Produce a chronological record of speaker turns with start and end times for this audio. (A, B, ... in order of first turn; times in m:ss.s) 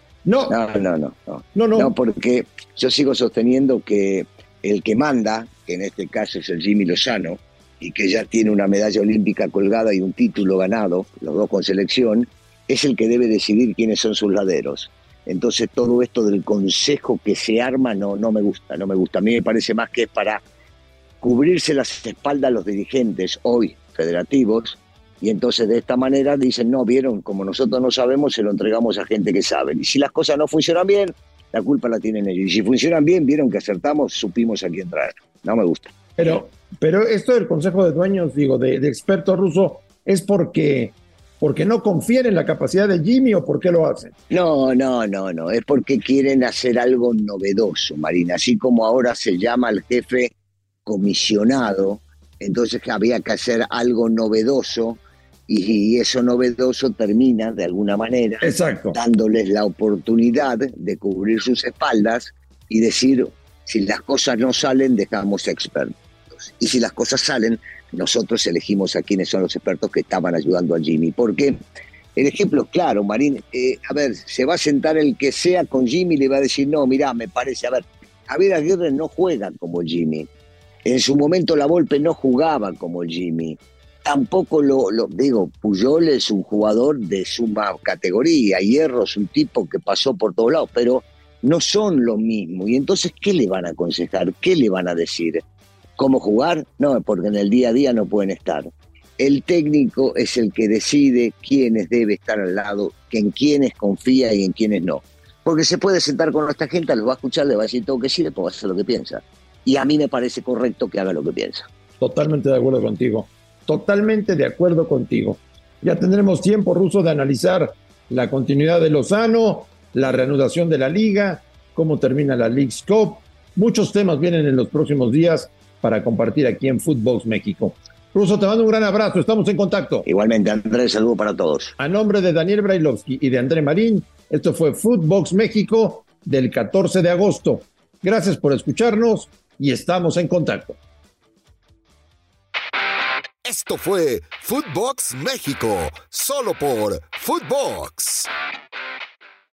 0:00.2-0:00.6 A
0:00.5-0:20.4 B
0:01.5-0:01.9 A
0:21.2-0:35.9 B
0:36.2-0:44.1 A
0:44.3-0:50.3 B
0:50.8-1:11.6 B
0:58.4-0:59.0 A
1:12.2-1:20.3 B
1:20.8-1:35.4 B
1:36.0-1:51.7 B
1:52.0-2:10.0 A
2:10.0-2:11.7 B
2:11.8-2:20.8 A
2:23.4-2:28.3 C